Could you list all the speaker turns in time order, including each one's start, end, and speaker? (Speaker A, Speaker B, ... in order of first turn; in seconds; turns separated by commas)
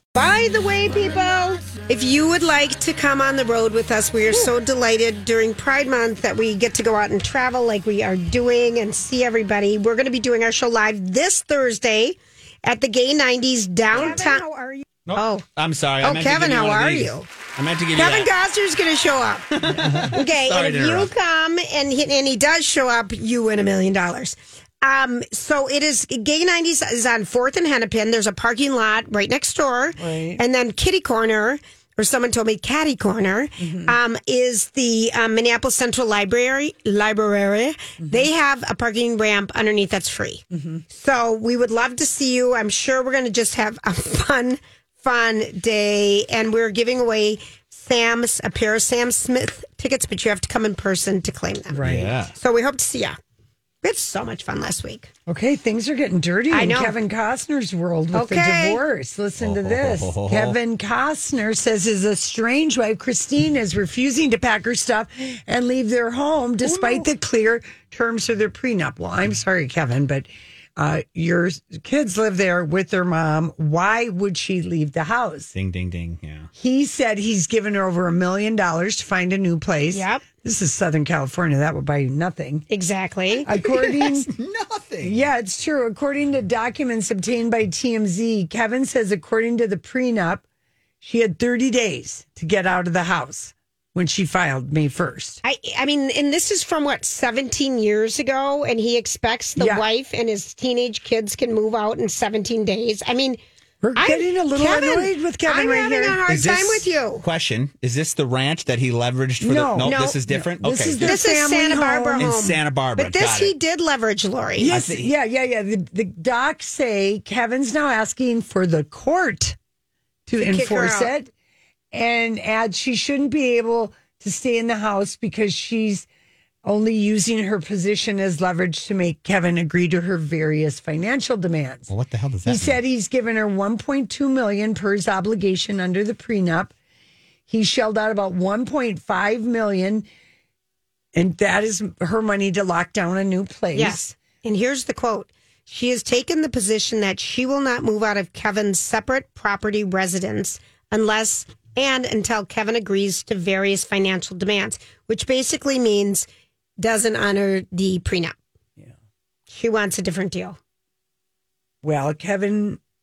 Speaker A: 0.1-15.4, Speaker B: 13.9-14.4, Speaker C: 15.1-18.3, Speaker A: 16.0-17.3, Speaker A: 17.9-19.5, Speaker C: 19.6-21.1, Speaker A: 20.1-51.8, Speaker B: 30.0-30.4, Speaker B: 33.6-34.0, Speaker B: 38.0-38.3, Speaker B: 40.5-40.8, Speaker B: 51.7-52.1, Speaker C: 51.8-52.3, Speaker A: 52.3-53.2, Speaker A: 53.8-55.1, Speaker B: 55.3-75.5, Speaker A: 56.5-57.0, Speaker A: 58.1-58.8, Speaker C: 59.4-60.6, Speaker C: 66.7-67.1, Speaker C: 75.5-76.5, Speaker B: 76.5-82.7, Speaker A: 79.9-80.2, Speaker A: 82.7-83.5, Speaker B: 83.4-84.3, Speaker C: 83.6-85.2, Speaker B: 85.0-90.4, Speaker B: 91.0-95.4, Speaker A: 95.4-103.4, Speaker B: 99.6-99.8, Speaker B: 103.8-106.2, Speaker A: 104.0-107.2, Speaker C: 106.3-111.2, Speaker B: 109.4-112.3, Speaker A: 109.8-110.2, Speaker A: 111.0-114.7, Speaker C: 112.2-113.5, Speaker B: 114.6-119.6, Speaker C: 114.7-115.1, Speaker B: 120.3-121.3, Speaker A: 120.4-121.1, Speaker B: 121.9-126.1, Speaker B: 126.7-131.9, Speaker C: 131.9-132.8, Speaker B: 132.4-136.7, Speaker B: 137.5-140.1, Speaker B: 141.2-144.1, Speaker A: 143.7-156.3, Speaker A: 156.8-158.3, Speaker A: 159.5-160.6, Speaker B: 161.8-162.8